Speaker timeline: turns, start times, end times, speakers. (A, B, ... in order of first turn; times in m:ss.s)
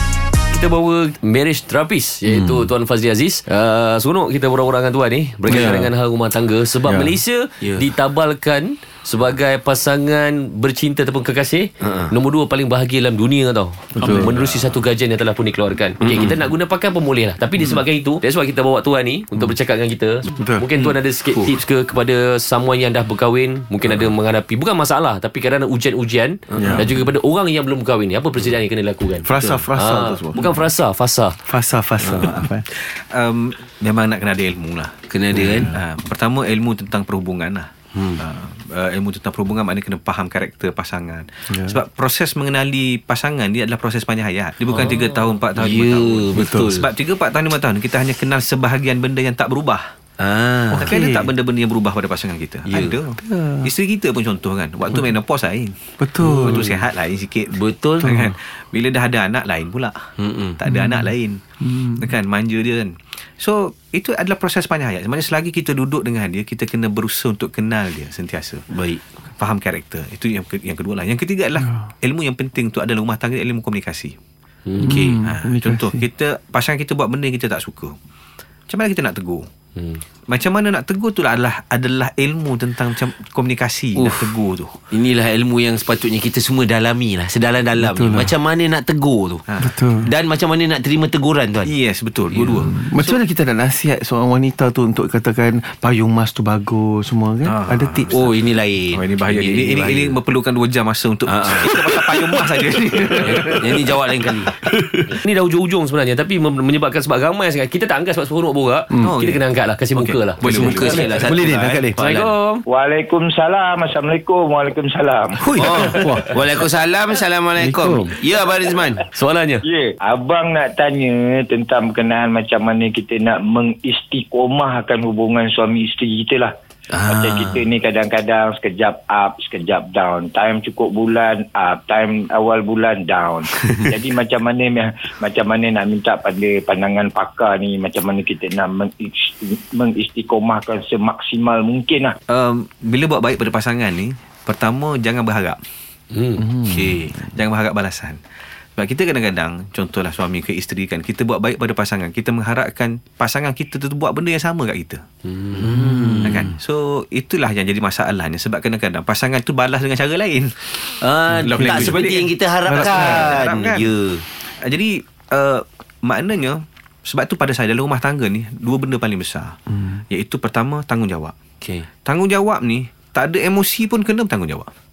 0:00.5-0:31.4 A
0:05.5-0:05.9 B
0:06.8-0:07.2 B
0:11.8-0:12.1 C
0:14.0-0:14.4 B
0:16.0-0:16.4 C
0:20.3-0:20.6 B
0:20.8-0:21.4 C
0:26.6-0:26.8 B
0:29.2-0:30.4 B
0:29.4-0:29.6 C
0:31.5-0:32.6 B
0:32.2-0:49.8 D
0:35.1-0:35.8 C
0:35.5-0:35.7 B
0:37.9-0:38.2 C
0:41.5-0:41.8 B
0:44.7-0:46.9 C
0:46.3-0:46.8 B
0:50.2-0:50.9 C
0:50.7-0:51.3 B
0:50.7-1:00.0 D
0:52.6-0:53.0 C
0:53.2-0:53.7 B
0:56.0-0:56.8 B
0:56.2-0:56.6 C
0:57.5-0:58.1 C
0:58.0-0:58.3 B
1:00.2-1:00.6 C
1:00.5-1:01.4 D
1:00.7-1:01.1 B
1:01.6-1:02.0 B
1:02.0-1:08.6 D
1:08.7-1:09.0 C
1:09.4-1:14.2 D
1:14.7-1:15.0 A
1:14.8-1:15.2 C
1:14.8-1:16.0 B
1:15.2-1:18.0 D
1:18.7-1:19.5 D
1:19.8-1:20.0 A
1:20.3-1:24.8 D
1:24.0-1:24.3 C
1:24.9-1:29.4 C
1:27.8-1:28.3 B
1:29.5-1:29.8 D
1:29.6-1:30.1 B
1:30.0-1:31.7 C
1:31.6-1:33.2 D
1:32.3-1:32.6 C
1:32.6-1:38.2 B
1:37.4-1:38.4 D
1:38.1-1:40.2 C
1:38.9-1:43.9 D
1:41.3-1:42.4 C
1:43.2-1:44.5 C
1:45.1-1:51.1 A
1:49.0-1:49.4 D
1:49.9-1:51.3 D
1:50.4-1:52.3 C
1:51.2-1:52.0 B
1:52.0-1:52.6 A
1:52.7-1:55.5 E
1:55.4-1:56.3 B
1:55.5-1:59.0 C
1:57.6-1:58.1 B
1:57.8-1:58.1 A
1:59.1-1:59.6 A
1:59.6-2:06.5 E
2:06.9-2:07.6 C
2:07.1-2:22.2 E
2:22.3-2:25.6 D
2:26.1-2:26.4 A
2:26.4-2:26.8 B
2:26.7-2:27.1 C
2:27.1-2:28.2 D
2:28.8-2:35.0 D
2:35.3-2:35.7 A
2:35.6-2:36.5 B
2:35.6-2:36.2 C
2:36.2-2:40.9 D
2:41.0-2:44.2 C
2:41.4-2:43.9 D
2:41.4-2:42.0 B
2:42.6-2:43.4 B
2:44.6-2:49.6 D
2:50.1-2:51.3 D
2:51.6-2:51.9 C
2:52.0-2:54.7 D